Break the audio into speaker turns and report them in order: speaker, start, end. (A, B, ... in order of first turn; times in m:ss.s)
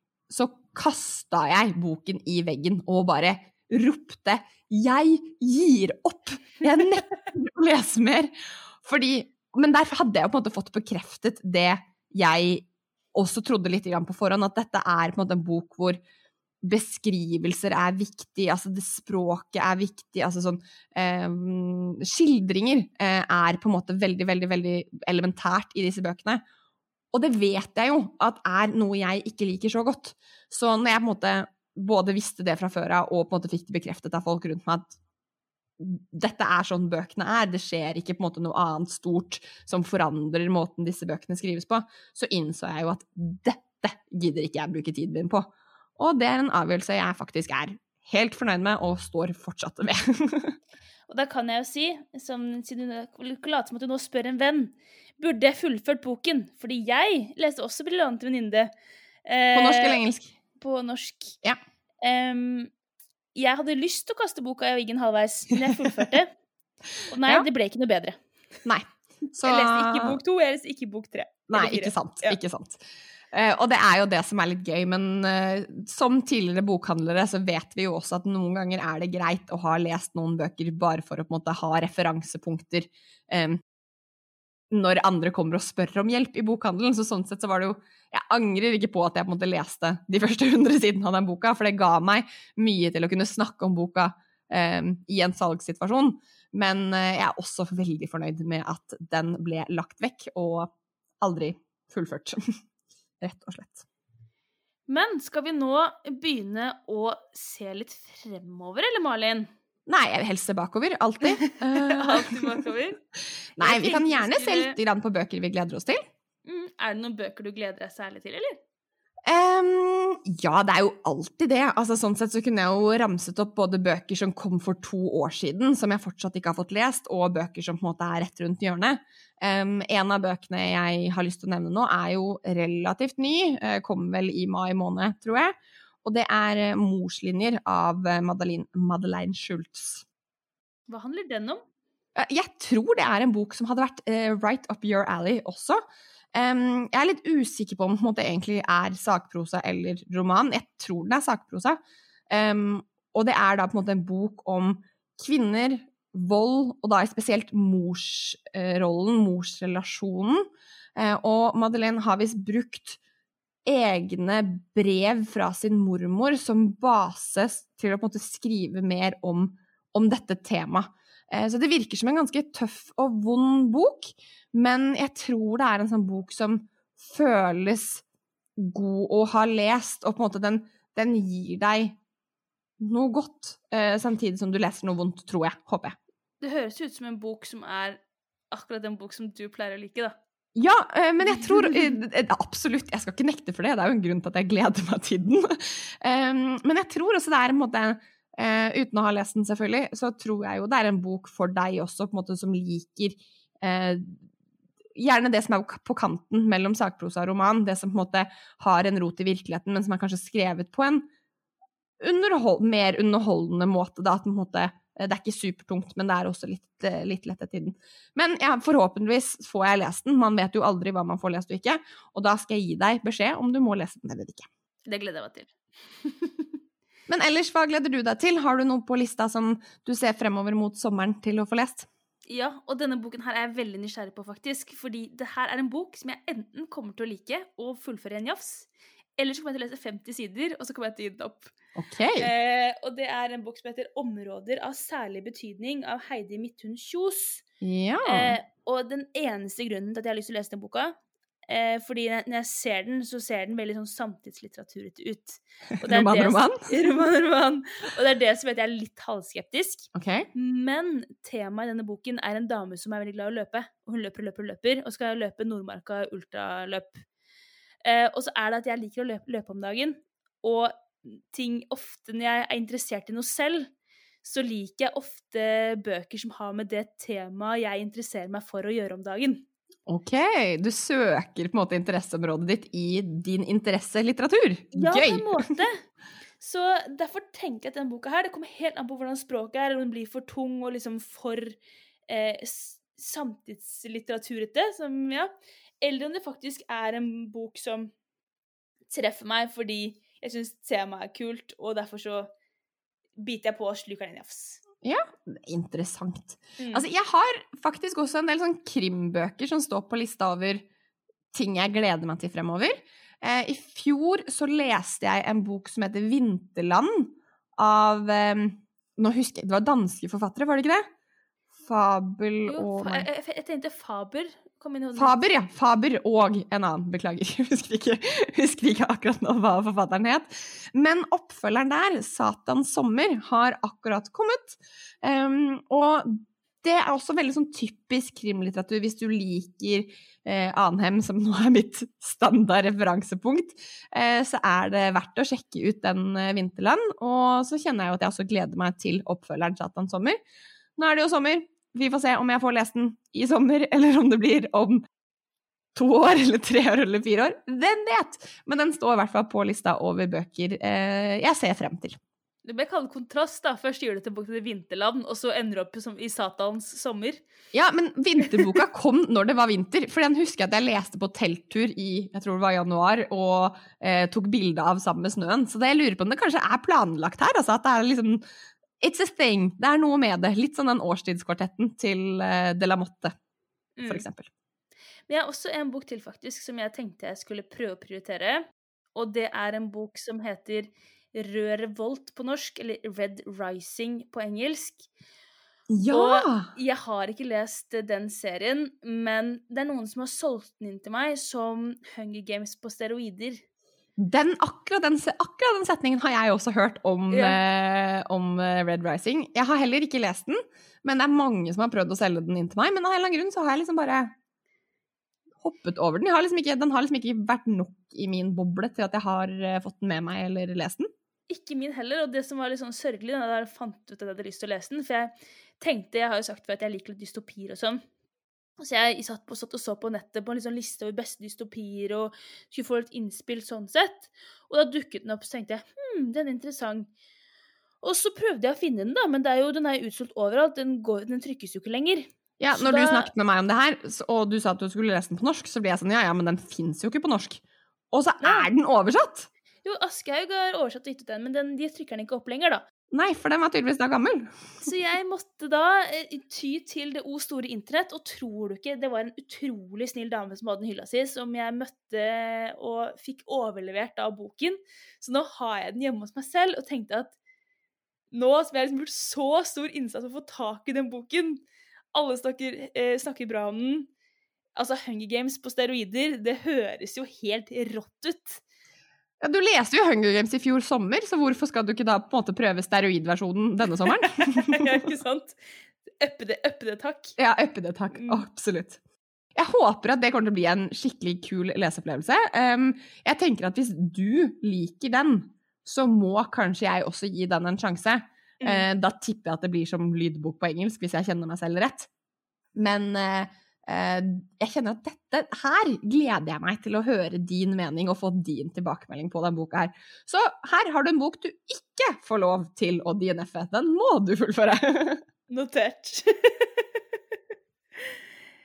0:00.3-0:16.0 A
0:16.6-0:26.4 A
0:27.1-0:35.0 A
0:35.8-0:50.6 A
0:51.1-0:58.7 B
0:59.2-1:00.0 B
0:59.5-1:00.4 A
1:00.6-1:01.4 B
1:02.0-1:02.7 B
1:03.4-1:06.3 B
1:07.1-1:08.2 B
1:08.6-1:10.2 A
1:09.4-1:12.4 B
1:11.5-1:23.6 A
1:24.7-1:42.6 A
1:43.2-1:43.9 A
1:44.9-1:49.5 B
1:49.9-1:52.5 A
1:51.2-1:53.0 B
1:53.6-1:56.0 A
1:53.6-1:54.8 B
1:56.4-1:58.6 B
1:59.3-2:20.0 A
2:20.9-2:21.6 B
2:22.2-2:25.8 A
2:26.4-2:31.8 A
2:32.3-2:43.0 A
2:43.7-2:58.0 A
2:58.6-3:02.0 A
3:02.8-3:06.0 A
3:06.4-3:08.0 B
3:08.5-3:10.2 B
3:10.6-3:24.2 A
3:11.2-3:12.0 B
3:25.0-3:31.1 A
3:32.0-3:44.5 A
3:44.9-3:46.5 B
3:47.1-3:51.9 A
3:52.3-4:01.5 B
4:01.8-4:02.3 A
4:02.2-4:07.4 B
4:07.6-4:08.4 A
4:08.0-4:27.0 B
4:15.8-4:16.7 A
4:19.9-4:20.3 A
4:27.8-4:33.7 B
4:34.2-4:39.4 B
4:39.9-4:45.4 A
4:44.7-4:45.8 B
4:46.4-4:57.9 B
4:58.9-5:02.3 B
5:03.2-5:04.6 B
5:04.8-5:10.6 A
5:06.6-5:06.9 B
5:11.3-5:20.9 A
5:21.6-5:23.1 A
5:22.5-5:25.2 B
5:25.0-5:50.2 A
5:50.8-5:54.8 A
5:55.8-6:02.0 A
6:02.4-6:07.2 B
6:07.5-6:18.2 A
6:18.8-6:23.2 A
6:23.8-6:24.1 B
6:23.9-6:24.3 A
6:25.1-6:28.4 B
6:29.0-6:34.9 B
6:35.7-6:36.5 A
6:35.9-6:43.4 B
6:44.0-6:54.1 A
6:47.1-6:47.4 B
6:55.4-7:00.9 A
7:01.3-7:07.8 B
7:08.6-7:16.9 B
7:17.8-7:23.1 B
7:22.4-7:29.3 A
7:28.2-7:28.5 B
7:29.6-7:32.6 B
7:32.9-7:34.4 A
7:34.6-7:47.2 B
7:48.1-7:51.4 B
7:51.9-7:53.9 B
7:54.6-7:58.4 B
7:59.2-8:04.8 A
8:04.0-8:07.2 B
8:07.2-8:08.8 A
8:07.9-8:08.3 B
8:09.4-8:21.9 A
8:22.6-8:35.0 A
8:35.3-8:36.8 B